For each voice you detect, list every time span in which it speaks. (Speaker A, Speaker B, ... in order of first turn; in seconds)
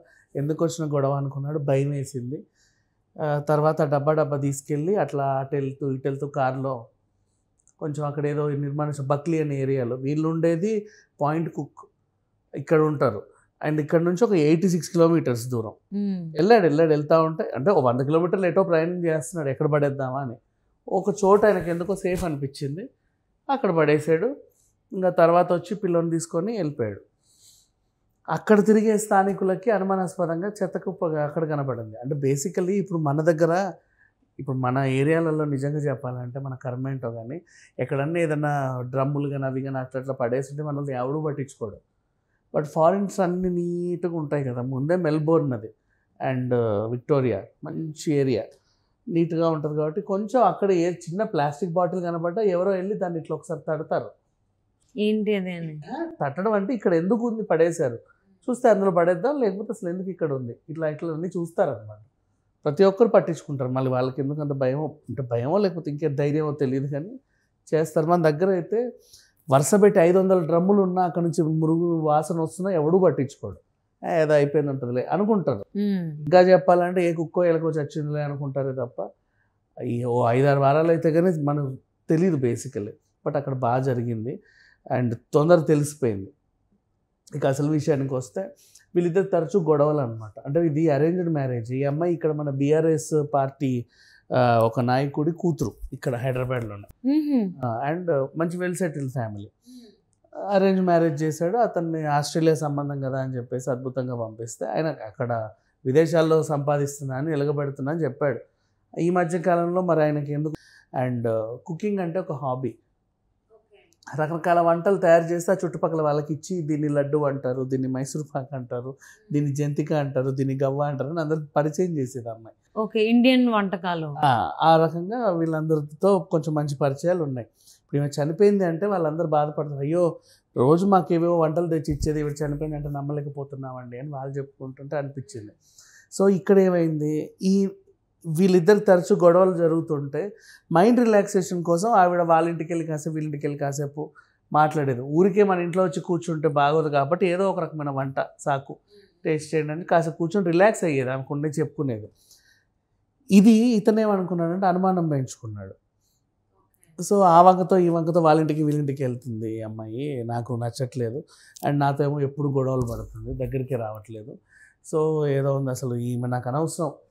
Speaker A: 0.4-2.4, 3.2-6.8, 7.8-11.7, 12.6-15.8, 16.4-20.4, 20.9-22.9, 23.5-24.3, 25.0-27.0, 28.3-33.6, 34.4-41.8, 42.5-45.7, 46.3-48.5, 49.1-54.1, 55.8-62.1, 62.6-67.1, 67.7-68.8, 69.5-73.6, 74.1-75.7, 76.2-79.0, 79.9-84.3, 84.9-86.3, 87.4-93.8, 94.3-96.9, 97.6-99.5, 100.5-108.4, 109.0-112.8, 114.2-122.5, 124.3-130.1, 130.6-135.5, 136.1-137.7, 138.4-152.1, 153.4-155.8, 157.0-164.3, 164.9-166.9
Speaker B: 16.0-16.3, 55.0-55.8, 75.8-76.2, 97.1-97.5, 122.8-124.1